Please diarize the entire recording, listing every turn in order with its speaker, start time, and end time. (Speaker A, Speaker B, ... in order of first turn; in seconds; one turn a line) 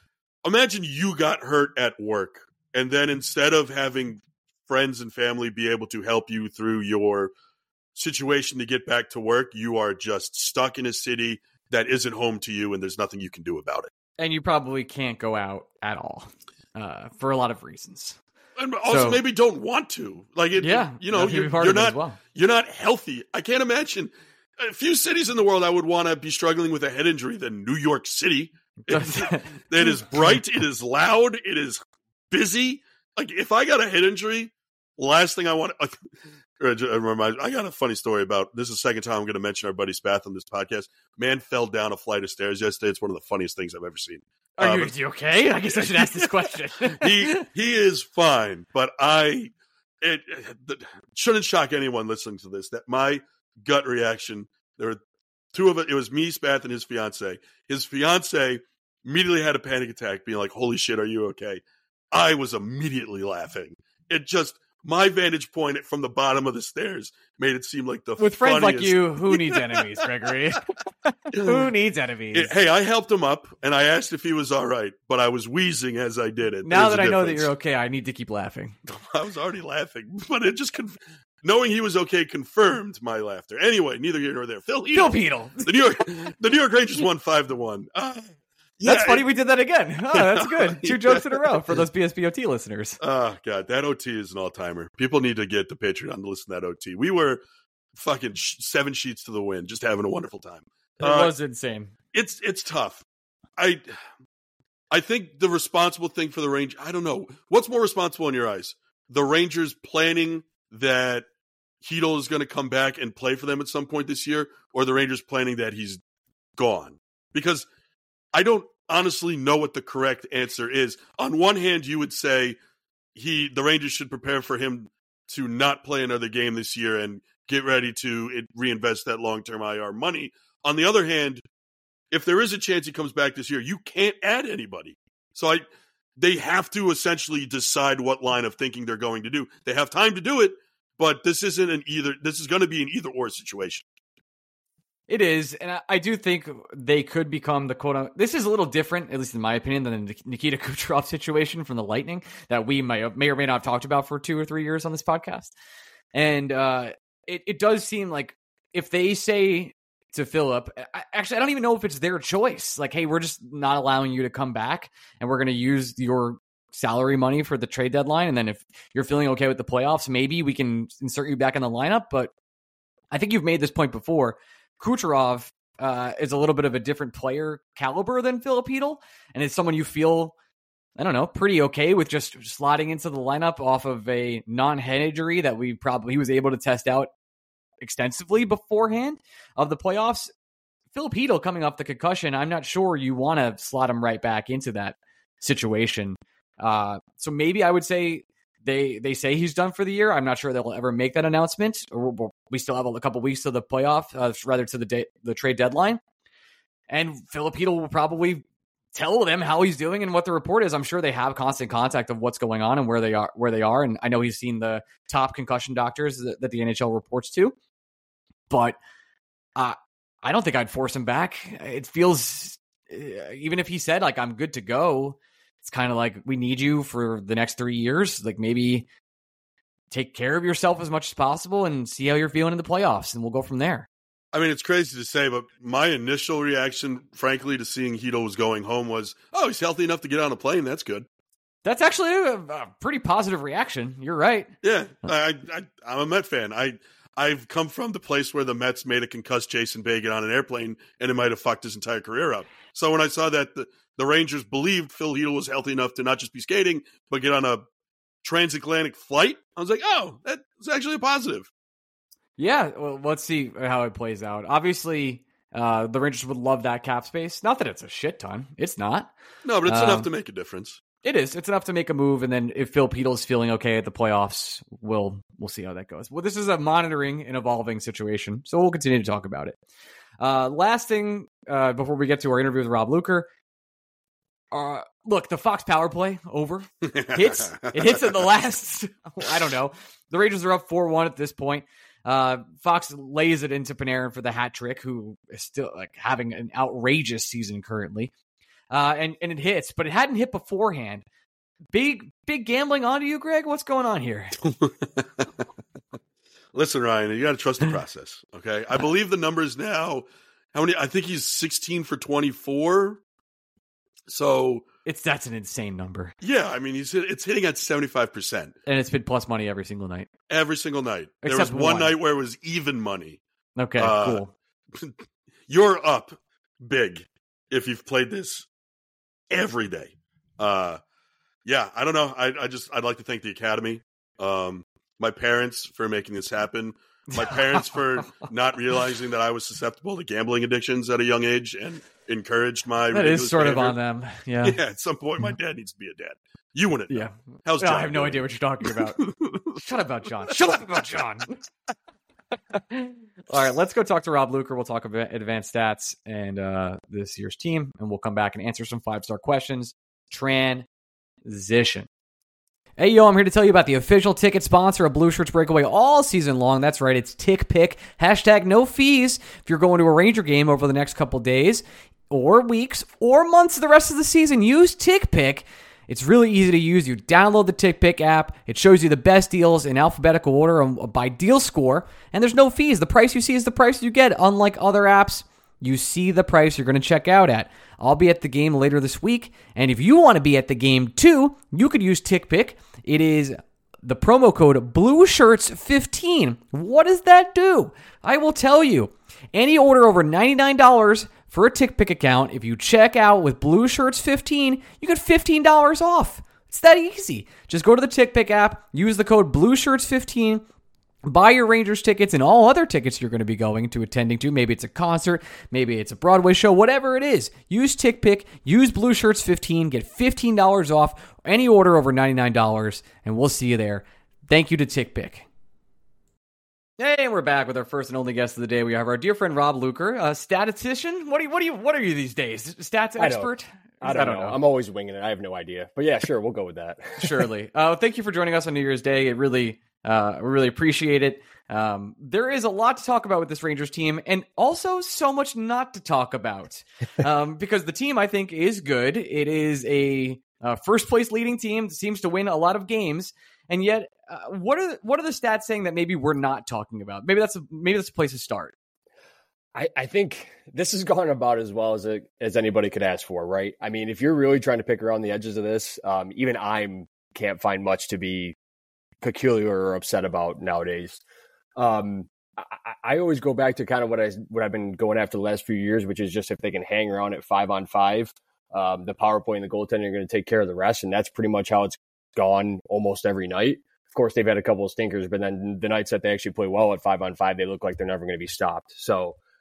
Speaker A: 0.4-7.3
Speaker A: 7.9-13.9
Speaker B: 14.2-18.2
Speaker A: 18.6-36.0
Speaker B: 18.9-19.2
Speaker B: 20.6-22.2
Speaker B: 28.9-29.6
Speaker A: 36.6-44.9
Speaker B: 44.6-47.5
Speaker A: 45.6-55.0
Speaker A: 55.5-70.3
Speaker B: 68.2-72.5
Speaker A: 71.3-71.7
Speaker A: 72.3-77.5
Speaker B: 76.6-78.8
Speaker A: 78.8-89.3
Speaker B: 84.9-85.7
Speaker B: 88.8-93.0
Speaker A: 90.1-91.5
Speaker A: 93.0-97.4
Speaker A: 97.9-101.3
Speaker B: 101.0-101.9
Speaker A: 102.1-103.0
Speaker A: 103.6-103.9
Speaker A: 104.9-111.3
Speaker A: 111.8-116.0
Speaker A: 116.6-117.7
Speaker A: 118.3-122.6
Speaker A: 123.1-131.4
Speaker A: 132.1-135.7
Speaker A: 136.2-143.8
Speaker B: 145.1-155.5
Speaker B: 156.1-172.3
Speaker B: 173.1-180.3
Speaker B: 181.0-187.1
Speaker B: 187.8-190.3
Speaker B: 190.9-206.0
Speaker B: 206.9-208.4
Speaker B: 208.9-217.5
Speaker B: 218.5-218.8
Speaker B: 219.6-228.9
Speaker B: 229.9-233.9
Speaker A: 234.3-241.1
Speaker B: 241.6-244.5
Speaker A: 244.6-257.6
Speaker A: 258.2-261.5
Speaker B: 262.4-269.1
Speaker A: 269.4-270.8
Speaker B: 269.6-270.1
Speaker B: 271.0-279.6
Speaker B: 280.2-283.3
Speaker B: 284.5-298.1
Speaker A: 286.8-288.1
Speaker B: 298.7-301.0
Speaker B: 301.7-304.4
Speaker A: 304.4-305.3
Speaker A: 306.5-313.0
Speaker A: 314.1-314.6
Speaker B: 314.8-316.1
Speaker A: 316.2-318.6
Speaker B: 318.6-320.1
Speaker A: 320.3-323.2
Speaker B: 321.2-321.9
Speaker B: 323.6-324.3
Speaker A: 323.8-324.9
Speaker A: 325.5-328.5
Speaker A: 329.3-330.8
Speaker A: 331.4-343.8
Speaker B: 337.1-338.2
Speaker B: 342.9-344.6
Speaker A: 344.4-349.6
Speaker B: 346.9-349.0
Speaker B: 349.5-351.4
Speaker A: 350.3-350.6
Speaker B: 352.5-360.7
Speaker B: 361.2-361.9
Speaker B: 362.8-410.4
Speaker B: 411.1-425.2
Speaker B: 426.8-434.4
Speaker C: 433.0-437.3
Speaker B: 437.0-458.5
Speaker C: 459.5-468.3
Speaker C: 469.0-471.0
Speaker C: 471.6-489.2